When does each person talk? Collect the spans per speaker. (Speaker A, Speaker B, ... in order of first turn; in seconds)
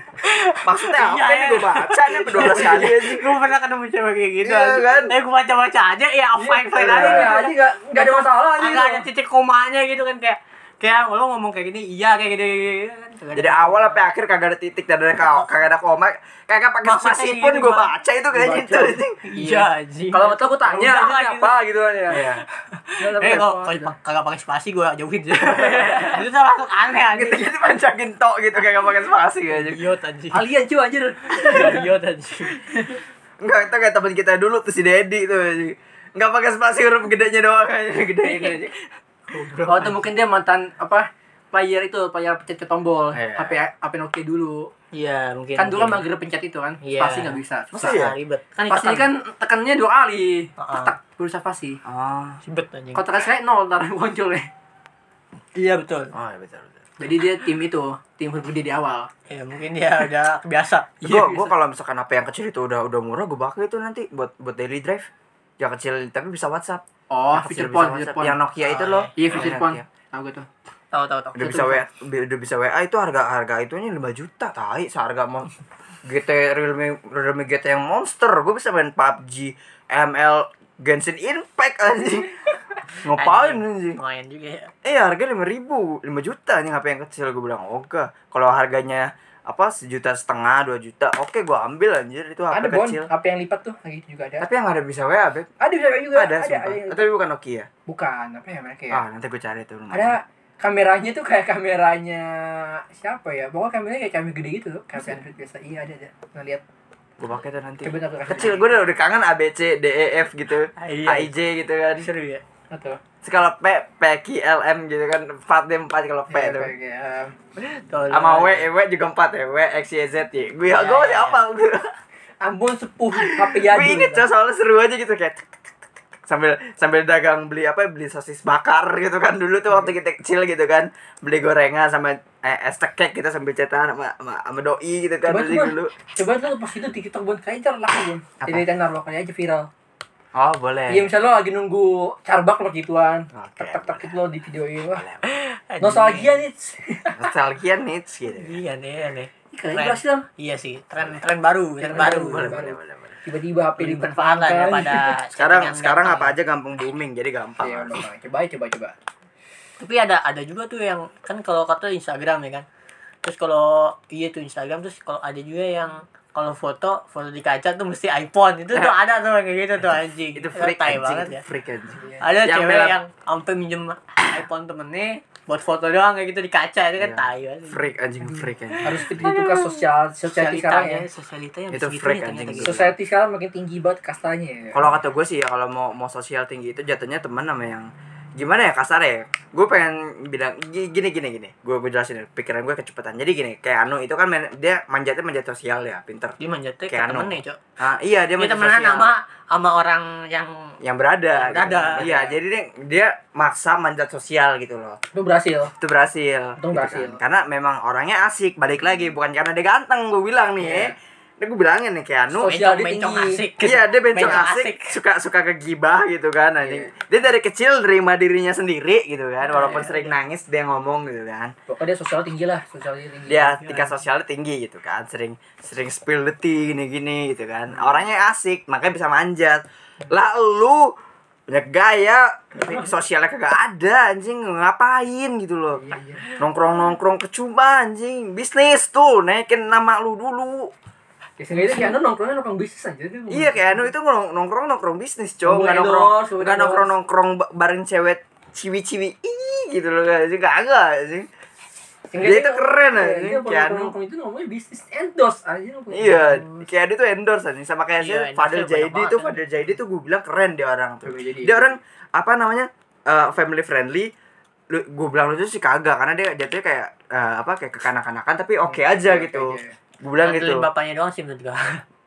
Speaker A: 0.2-14.0, 16.8-21.6, 22.1-27.5, 29.5-30.4, 31.3-32.6, 44.9-46.0, 46.8-49.1, 50.6-50.9, 52.5-53.0, 55.5-56.1, 59.3-60.9, 68.6-69.3, 70.9-71.6, 83.1-84.7, 110.8-111.3, 112.0-112.4, 117.7-118.7, 120.7-121.4, 145.2-146.4, 148.3-152.6, 153.8-156.3, 159.8-162.6, 163.2-171.4, 172.2-177.8, 178.7-182.8, 196.4-197.6, 198.4-200.8, 201.3-202.2, 212.5-214.9, 219.5-220.1, 258.0-259.5, 270.2-271.8
Speaker B: 0.6-3.4, 4.4-5.1, 6.7-7.3, 13.3-19.2, 22.1-22.4, 27.1-29.8, 33.4-38.7, 39.3-39.9, 43.1-43.6, 47.7-48.1, 51.8-52.4, 56.1-56.8, 61.0-65.1, 65.6-69.8, 71.3-75.5, 76.0-82.5, 83.0-84.0, 84.8-93.1, 94.4-95.5, 96.1-97.7, 98.9-100.1, 107.2-112.1, 113.2-116.7, 118.1-121.9, 123.2-125.5, 126.3-135.9, 138.4-138.7, 140.3-141.1, 143.3-144.1, 144.9-145.4, 147.2-148.6, 151.9-153.2, 155.4-158.0, 169.8-173.0, 177.0-179.1, 181.7-182.9, 184.7-196.3, 196.9-199.1, 200.8-205.0, 205.8-212.5, 213.6-221.5, 223.3-230.9, 231.5-240.7, 243.3-251.3, 252.2-253.9, 255.9-264.1, 264.7-270.7
Speaker C: 6.4-9.1, 19.4-22.2, 23.0-23.9, 25.5-26.2, 30.3-31.9, 32.7-33.0, 39.6-44.7, 45.5-48.0, 48.7-51.8, 52.9-54.5, 57.0-59.1, 61.0-61.5, 67.1-68.3, 69.2-70.5, 71.4-71.8, 92.5-94.5, 95.6-97.1, 97.9-99.0, 99.9-106.6, 107.8-108.7, 112.7-113.0, 116.3-117.3, 122.4-124.3, 135.2-139.7, 140.9-145.1, 145.8-147.2, 149.5-150.2, 151.8-155.2, 157.6-158.9, 172.0-172.3, 178.8-181.0, 182.6-184.9, 205.1-205.7, 206.6-207.2, 210.6-210.9, 212.3-213.4, 216.6-216.9, 219.5-219.9, 221.7-224.0, 227.7-228.0, 235.8-236.3, 241.4-243.9, 245.4-246.9, 252.1-256.7, 261.0-261.8, 268.7-269.7